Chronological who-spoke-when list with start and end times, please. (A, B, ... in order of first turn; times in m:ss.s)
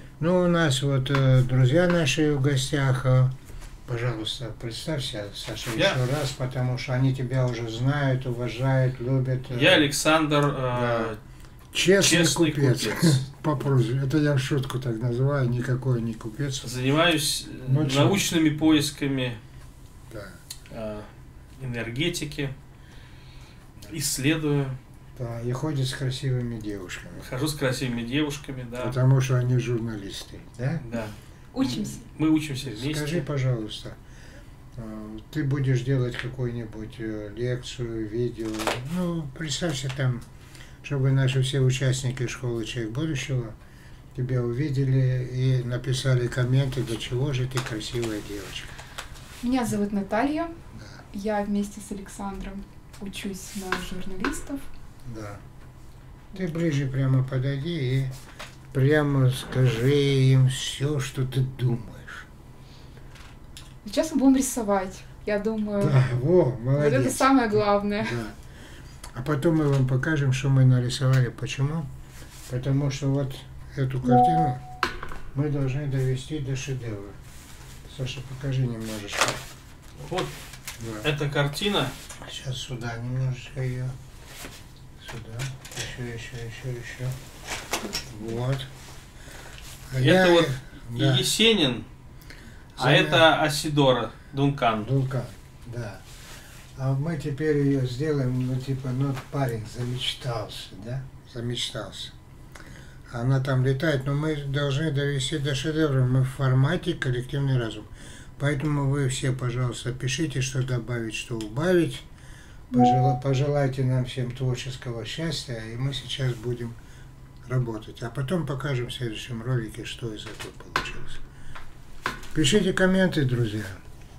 0:00.2-0:03.3 A
0:03.9-0:09.9 A
0:09.5-0:11.2 B
0:10.7-0:11.1 A
0:11.7-0:16.7 A
0:12.0-0:13.2 B
0:16.6-0:19.4 B
0:17.7-0:18.3 A
0:20.1-0:20.4 A
0:20.7-0:22.5 B
0:23.9-0:24.8 B
0:25.2-0:27.3 A
0:27.2-0:29.0 B
0:28.8-0:30.8 A
0:30.8-0:33.3 B
0:31.5-0:32.0 C
0:32.6-0:34.0 A
0:34.8-0:40.2 A
0:40.8-0:43.6 A
0:44.2-0:48.8 A
0:49.4-0:50.5 C
0:50.8-0:51.0 A
0:51.1-0:54.6 C
0:55.0-0:55.4 A
0:56.3-0:58.1 A
0:58.7-1:02.3 A
1:03.8-1:06.0 C
1:05.8-1:08.4 A
1:06.8-1:08.2 C
1:09.1-1:11.9 A
1:12.5-1:14.6 A
1:15.3-1:17.2 A
1:17.9-1:19.4 A
1:20.0-1:20.3 B
1:20.8-1:21.1 A
1:21.0-1:21.9 B
1:22.2-1:24.0 A
1:25.0-1:27.2 A
1:28.0-1:28.7 A
1:29.9-1:31.3 A
1:30.0-1:31.9 B
1:32.8-1:33.3 A
1:32.8-1:34.9 B
1:34.7-1:36.0 A
1:36.8-1:42.1 A
1:43.1-1:52.0 A
1:52.7-1:56.8 A
1:57.5-2:01.2 A
2:02.3-2:03.8 A